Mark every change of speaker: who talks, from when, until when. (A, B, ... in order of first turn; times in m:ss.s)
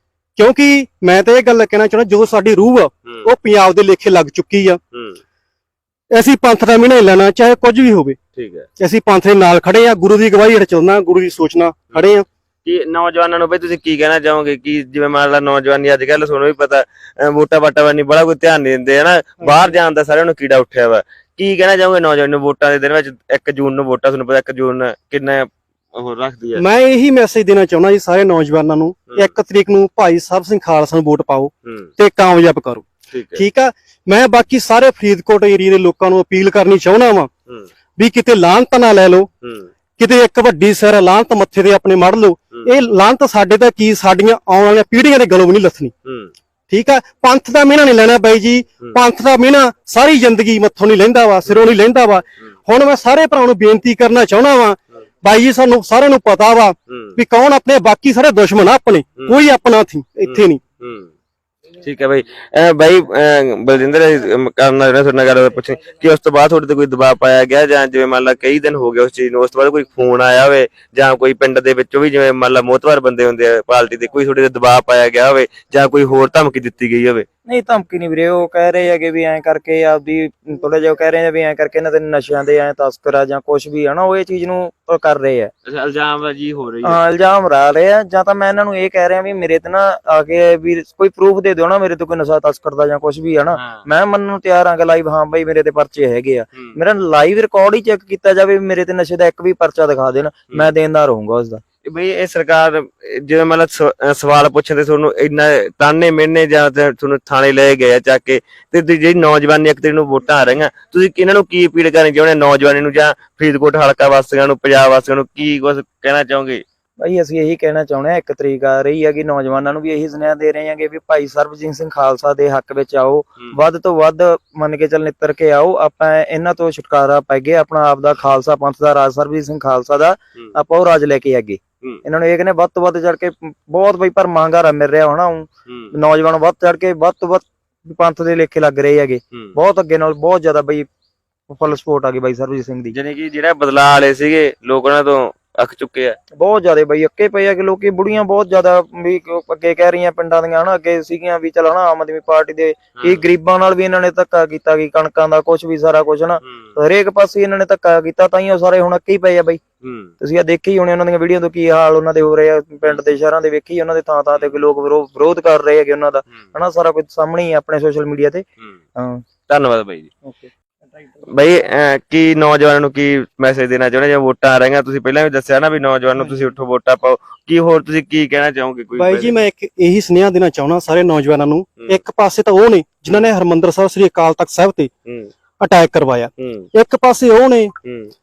0:00.4-0:04.8 A
0:04.9-0:05.2 B
0:06.1-0:08.2 A
0:08.4-0:08.6 B
0:08.8-0:12.2 A
0:12.6-0:26.6 B
0:19.4-0:19.7 A
0:26.6-0:37.3 A
0:31.6-0:31.9 B
0:33.1-0:33.4 B
0:38.0-0:39.3 A
0:39.4-0:39.7 B
0:40.0-0:45.9 A
0:46.0-0:46.3 B
0:46.7-1:00.6 A
0:56.9-0:57.2 B
1:00.2-1:01.1 B
1:01.8-1:17.2 B
1:17.4-1:25.5 C
1:25.6-1:27.0 B
1:26.8-1:41.6 C
1:33.5-1:33.8 B
1:41.8-1:56.6 B
1:57.0-2:20.8 C
2:15.7-2:15.9 B
2:21.5-2:22.9 C
2:22.9-2:26.2 B
2:26.4-2:39.6 C
2:39.8-2:40.1 B
2:40.2-2:48.4 C
2:49.0-2:49.2 C
2:49.5-2:50.1 B
2:51.3-2:59.4 B
2:59.0-3:04.9 A
3:03.1-3:03.3 B
3:05.6-3:07.7 A
3:06.4-3:06.7 B
3:07.8-3:08.1 B